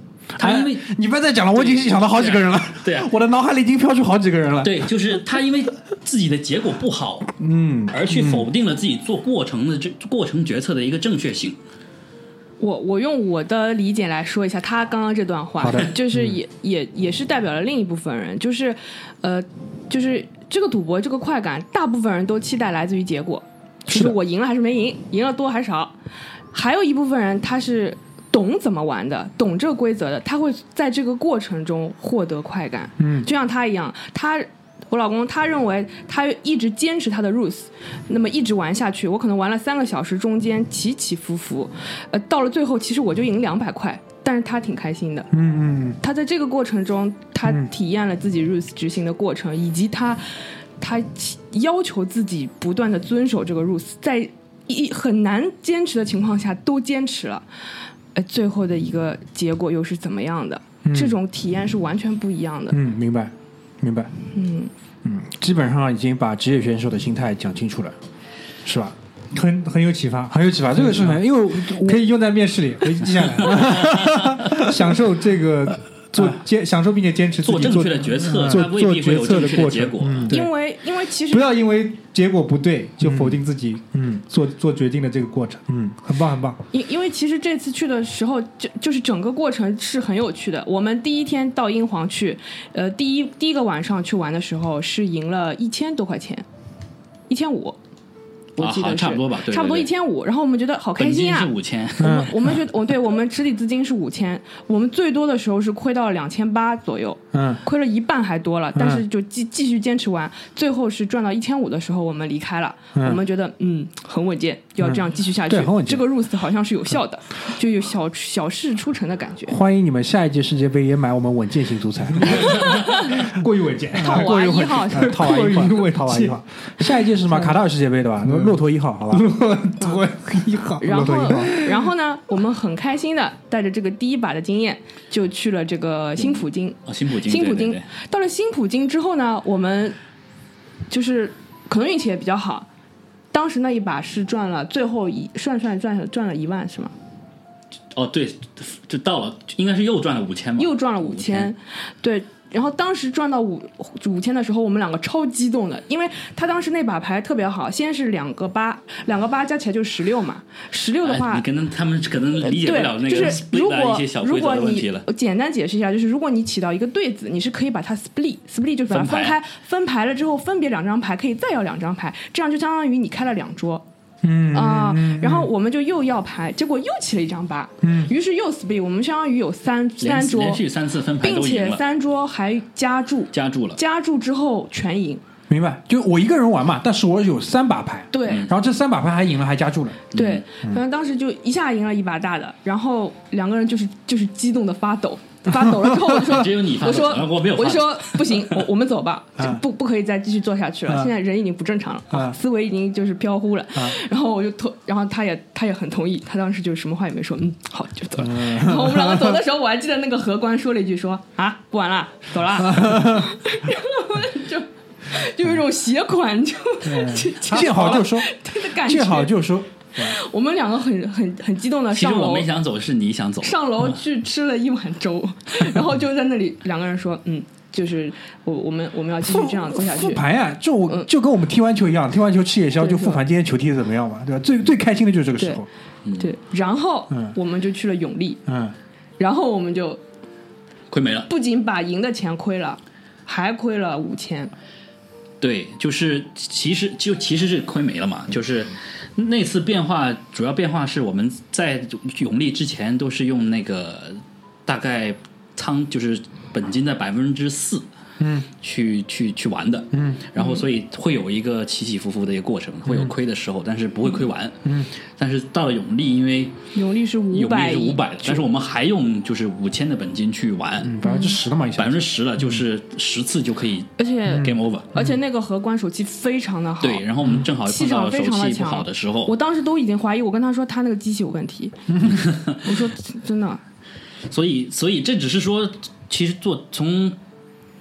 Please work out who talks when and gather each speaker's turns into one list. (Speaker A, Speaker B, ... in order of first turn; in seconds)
Speaker A: 0.3-4.9, 7.4-8.5, 15.6-16.4, 23.9-24.1, 33.0-33.3, 45.3-46.0, 47.4-47.7, 60.8-61.2, 62.7-64.1, 65.0-68.0, 68.6-68.9, 70.3-72.1, 73.4-74.8, 76.1-76.4, 78.2-78.8, 79.9-80.5, 83.0-83.4, 83.9-84.2, 85.7-86.0, 102.0-102.5, 107.3-107.6, 108.7-109.0, 112.9-113.2, 114.8-116.0, 119.5-123.3, 123.9-129.3, 131.2-131.5, 174.2-175.5, 177.8-178.1, 185.5-190.1, 195.5-196.2, 208.2-209.4, 212.5-213.3, 216.8-220.2, 229.2-235.7, 237.1-237.3, 238.4-238.8, 258.2-258.5, 259.9-260.3, 262.9-263.1, 264.6-264.9, 270.8-272.6, 274.3-275.2
Speaker B: 0.4-0.9, 1.5-3.1, 4.6-7.3, 7.9-11.6, 77.4-80.3, 98.6-99.9, 101.0-102.3, 136.8-137.9, 147.9-151.5, 161.0-165.1, 168.9-169.4, 180.0-181.8, 183.3-183.8, 190.1-190.4, 196.2-198.5, 221.9-223.9, 236.0-236.3, 240.9-241.3, 245.4-257.8, 258.5-266.6, 267.3-271.0, 271.7-274.9, 276.8-279.3, 282.1-282.6, 284.3-287.2
Speaker C: 12.6-25.9, 26.5-45.3, 46.0-57.5, 58.1-62.8, 64.3-64.7, 80.3-81.5, 86.7-96.4, 97.3-97.8, 98.6-119.6, 122.3-123.2, 124.0-125.3, 130.8-140.0, 140.9-142.7, 143.3-146.9, 150.6-161.4, 162.4-173.8, 174.5-180.6, 181.2-185.2, 188.1-188.5, 190.1-219.4, 220.0-222.5, 223.4-230.2, 232.8-233.2, 236.2-238.4, 239.2-240.0, 241.3-244.5, 260.4-260.6, 266.7-268.4, 271.0-271.4, 274.0-281.7, 282.6-283.6
Speaker D: 69.3-80.5, 81.2-86.6, 122.3-127.5, 128.2-131.9